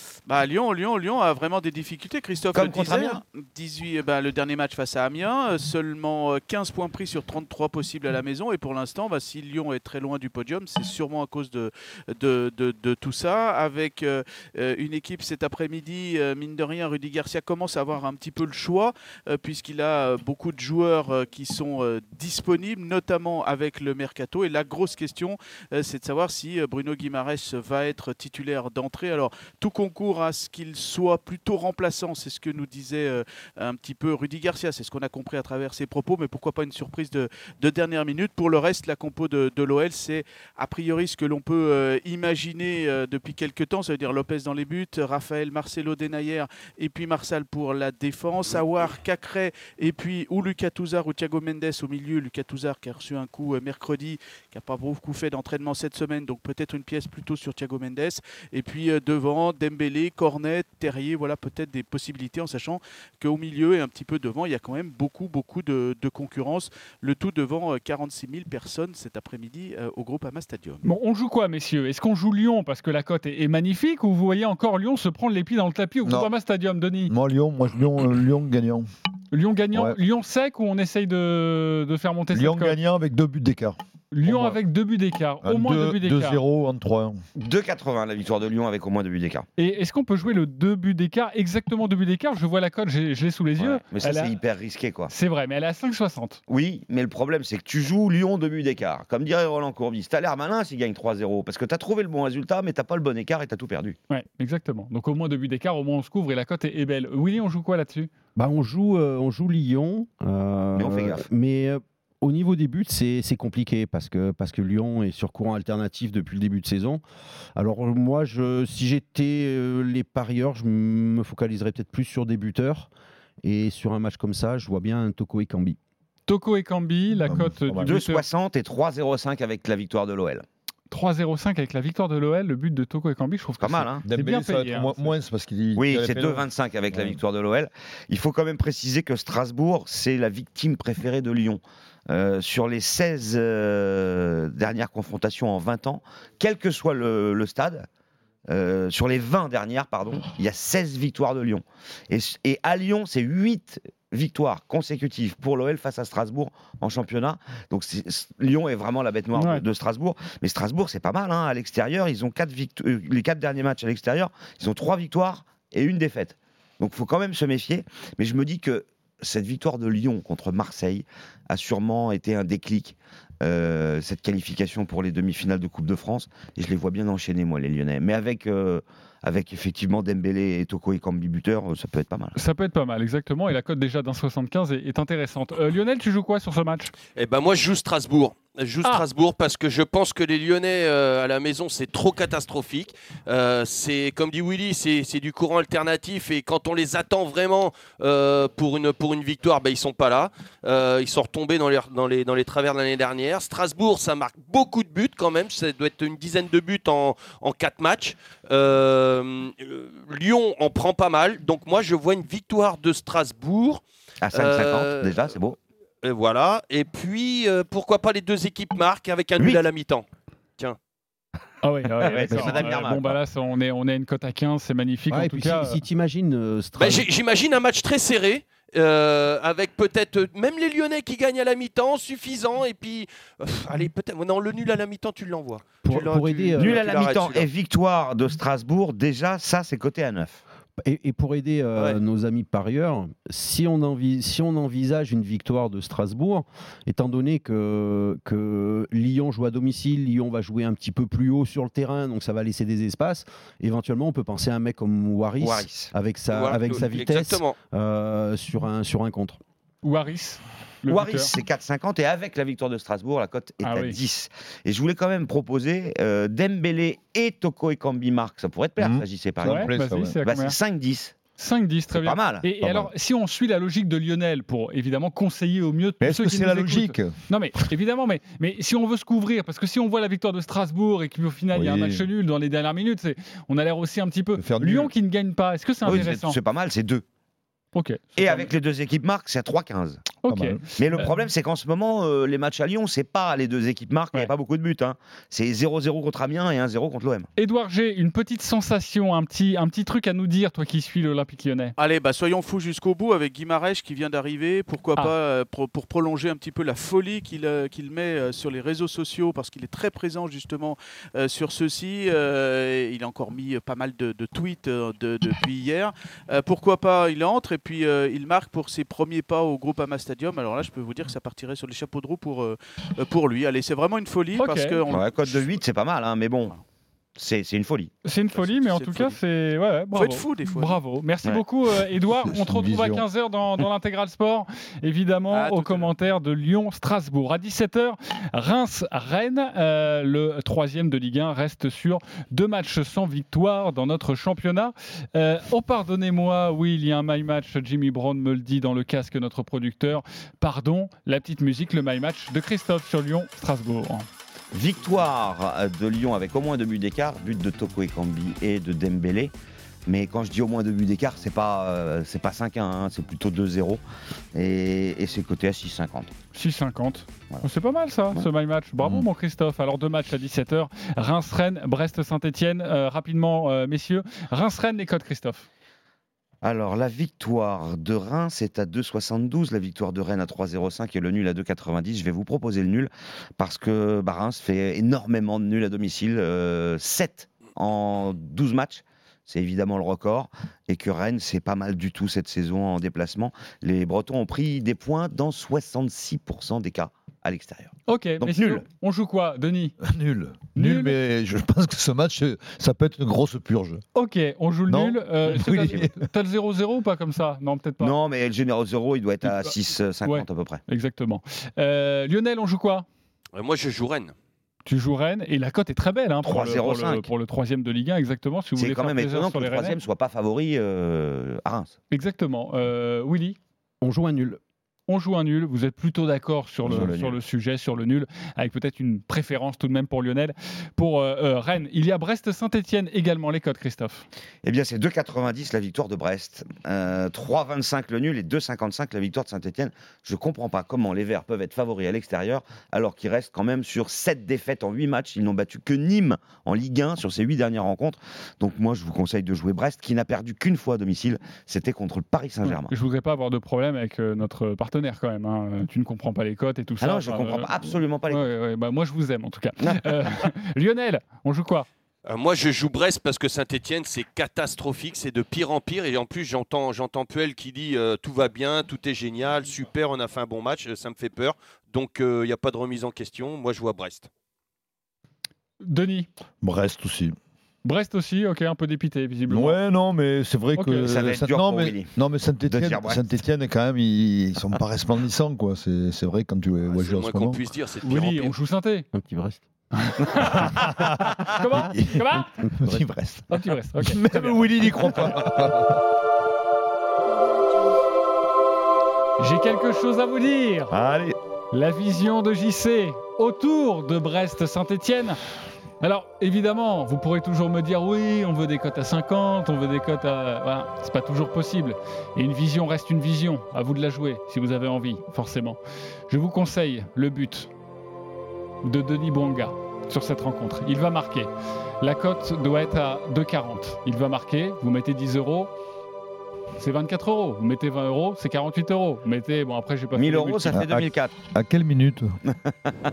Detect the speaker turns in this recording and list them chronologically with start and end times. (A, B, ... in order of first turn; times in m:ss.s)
0:00.2-1:10.8 A
0:02.5-0:03.2 B
1:10.8-1:17.1 C
1:17.1-1:18.8 D
1:19.3-1:22.8 C
1:22.3-1:24.6 D
1:24.1-1:26.4 C
1:25.4-1:27.2 D
1:27.4-1:29.4 B
1:29.6-1:34.3 C
1:33.6-1:35.1 B
1:35.1-1:36.4 C
1:36.5-1:44.0 B
1:44.1-1:48.1 C
1:48.4-1:57.0 E
1:50.8-1:51.2 B
1:57.6-2:02.9 E
2:03.4-2:05.8 E
2:06.3-2:08.2 C
2:07.2-2:07.9 D
2:07.8-2:10.4 B
2:10.9-2:15.2 C
2:13.6-2:14.0 B
2:14.0-2:17.2 D
2:15.8-2:27.9 B
2:28.5-3:02.4 B
2:39.4-2:39.6 C
3:02.4-3:06.9 C
3:07.2-3:35.2 F
3:34.2-3:35.6 B
3:36.0-3:40.0 F
3:39.4-3:39.6 B
3:41.6-3:45.8 C
3:42.0-3:43.2 B
3:42.3-3:42.6 E
3:45.1-3:47.1 E
3:46.8-3:57.5 F
3:55.8-3:56.8 E
3:56.6-4:00.4 B
4:00.8-4:19.4 E
4:15.4-4:15.9 B
4:16.3-4:17.6 F
4:19.8-4:21.3 C
4:20.9-4:29.7 B
4:23.6-4:24.0 C
4:28.8-4:30.2 D
4:29.4-4:30.6 C
4:30.2-4:31.2 B
4:31.4-4:46.4 C
4:31.9-4:32.5 B
4:36.0-4:37.1 D
4:41.5-4:42.0 D
4:44.4-4:44.9 D
4:45.8-4:46.1 D
4:45.8-4:47.0 B
4:47.7-4:48.5 C
4:48.2-4:50.0 B
4:50.2-4:51.1 C
4:50.3-4:50.6 D
4:50.8-4:57.3 B
4:57.4-5:01.7 C
5:01.8-5:25.6 A
5:24.4-5:24.8 C
5:24.9-5:26.6 B
5:27.2-5:27.9 B
5:28.0-5:54.1 C
5:28.3-5:29.1 A
5:29.9-5:30.8 A
5:32.2-5:33.0 D
5:54.5-5:59.3 B
5:59.9-6:03.8 B
6:04.3-6:06.1 B
6:06.3-6:15.4 C
6:08.8-6:09.0 B
6:16.4-6:38.6 B
6:37.9-6:39.8 C
6:39.8-6:43.8 D
6:40.5-6:41.0 C
6:43.9-6:47.9 C
6:44.7-6:46.0 D
6:47.8-6:50.6 B
6:49.2-6:49.5 C
6:50.0-6:52.8 C
6:53.3-6:54.1 F
6:54.6-6:59.8 C
6:56.2-6:57.1 B
6:58.6-7:01.7 B
7:01.9-7:03.4 C
7:03.8-7:04.4 E
7:04.9-7:14.0 C
7:06.6-7:07.2 B
7:14.4-7:32.7 B
7:32.4-7:41.7 C
7:36.8-7:38.2 B
7:39.6-7:39.9 B
7:42.0-7:54.1 F
7:55.6-7:56.1 C
7:56.4-7:57.1 D
7:57.6-7:59.6 C
7:59.3-8:07.4 D
8:00.6-8:01.0 C
8:00.8-8:03.0 B
8:06.7-8:08.3 F
8:07.8-8:08.9 C
8:08.9-8:09.4 E
8:09.8-8:10.6 C
8:10.6-8:11.1 D
8:11.3-8:12.3 C
8:11.7-8:15.8 D
8:12.5-8:12.8 E
8:13.3-8:15.3 C
8:19.2-8:20.7 C
8:20.8-8:21.1 D
8:21.5-8:25.2 C
8:25.8-8:37.5 C
8:38.6-8:45.5 C
8:46.6-8:50.6 C
8:50.0-8:51.2 B
8:50.5-8:52.2 D